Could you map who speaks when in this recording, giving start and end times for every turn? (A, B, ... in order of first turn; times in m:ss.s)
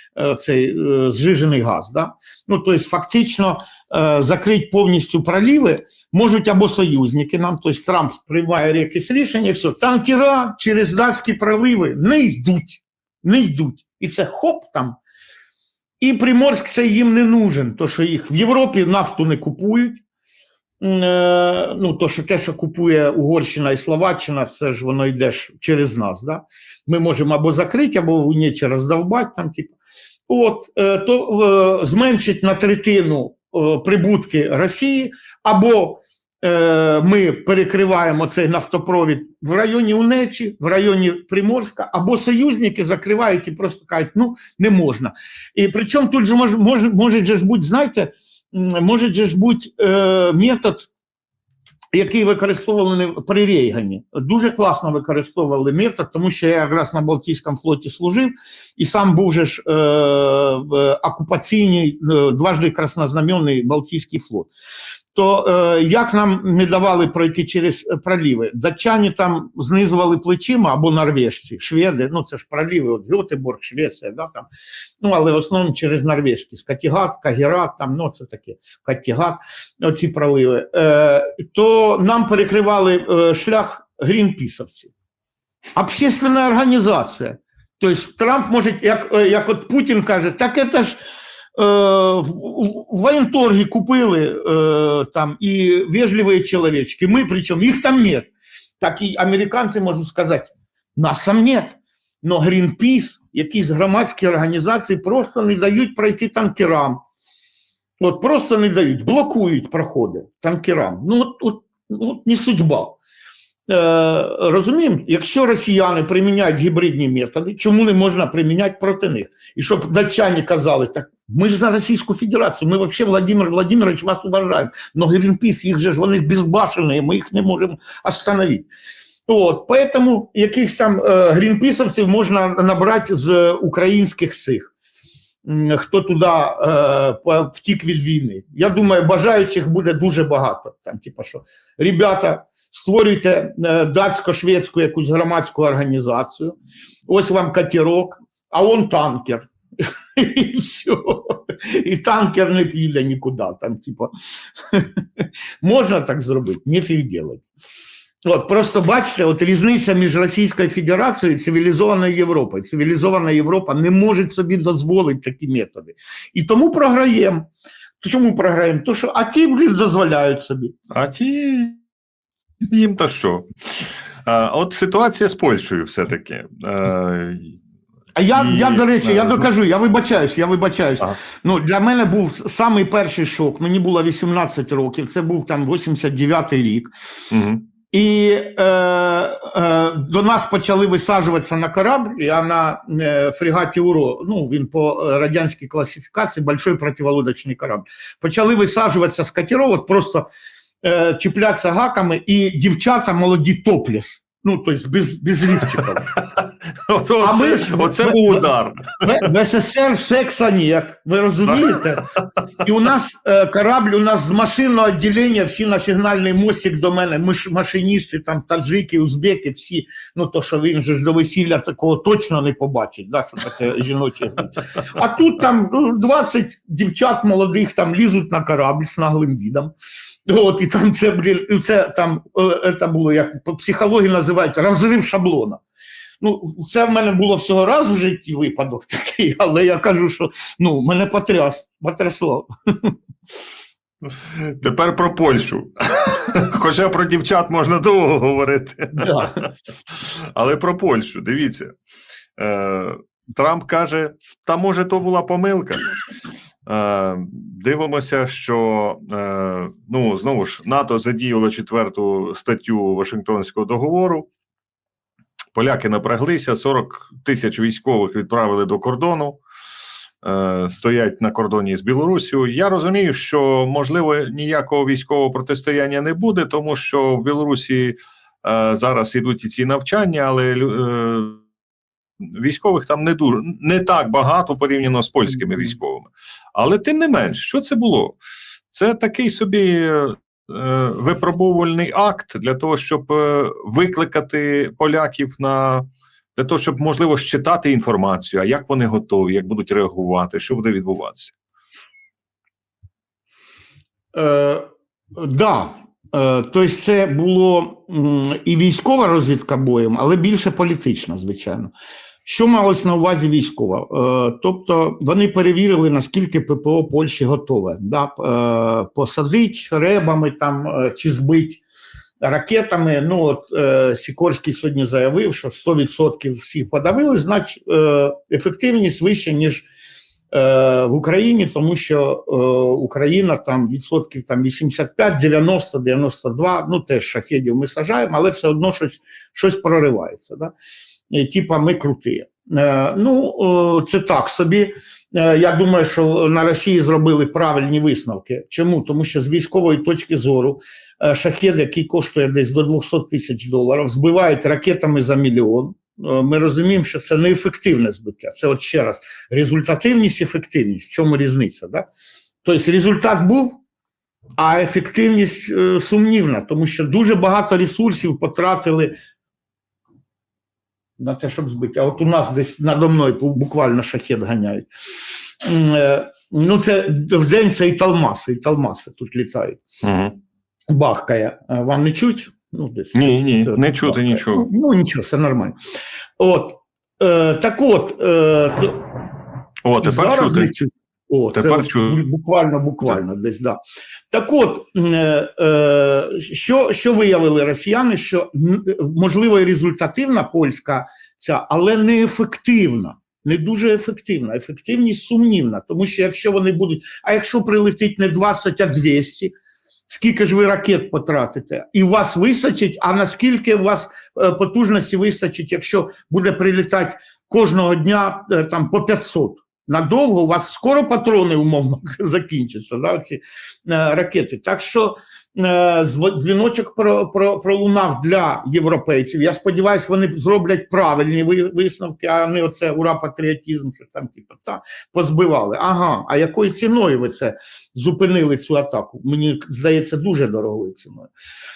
0:00.2-0:15.0 A
0:16.0-0:20.0 A
0:20.8-0:29.7 A
0:30.3-0:50.9 A
0:51.9-1:04.5 A
1:05.1-1:14.5 A
1:15.0-1:24.9 A
1:25.8-1:31.0 A
1:31.6-1:47.0 A
1:48.0-1:53.0 A
1:53.7-2:08.7 A
2:09.3-2:14.7 A
2:15.4-2:26.6 A
2:27.1-2:29.5 A
2:30.2-2:34.1 A
2:34.7-2:37.4 A
2:38.2-2:47.5 A
2:48.0-2:50.7 A
2:50.9-2:51.8 B
2:52.6-2:57.6 B
2:58.1-3:06.9 A
2:58.3-2:59.5 B
3:07.3-3:07.6 B
3:07.9-3:20.3 A
3:20.8-3:26.1 A
3:25.8-3:29.2 B
3:27.2-3:28.4 A
3:29.0-3:32.1 A
3:31.5-3:32.1 B
3:32.6-3:49.7 A
3:50.3-3:55.6 A
3:56.2-4:02.9 A
4:04.2-4:11.7 B
4:08.9-4:09.4 A
4:12.4-4:15.8 B
4:16.6-4:24.3 B
4:25.5-4:29.4 B
4:30.2-4:41.4 B
4:42.2-4:48.2 B
4:48.7-5:01.3 B
5:04.1-5:11.7 A
5:12.2-5:21.6 A
5:22.2-5:29.6 A
5:30.3-5:40.5 A
5:41.1-6:01.9 A
6:02.4-6:03.6 A
6:04.4-6:09.0 A
6:11.0-6:14.7 A
6:15.4-6:19.6 A
6:19.8-6:20.2 B
6:20.7-6:25.5 A
6:22.9-6:24.5 B
6:26.2-6:28.9 A
6:29.6-6:30.5 B
6:29.8-6:33.6 A
6:31.3-6:32.0 B
6:34.1-6:49.3 A
6:49.9-7:21.1 A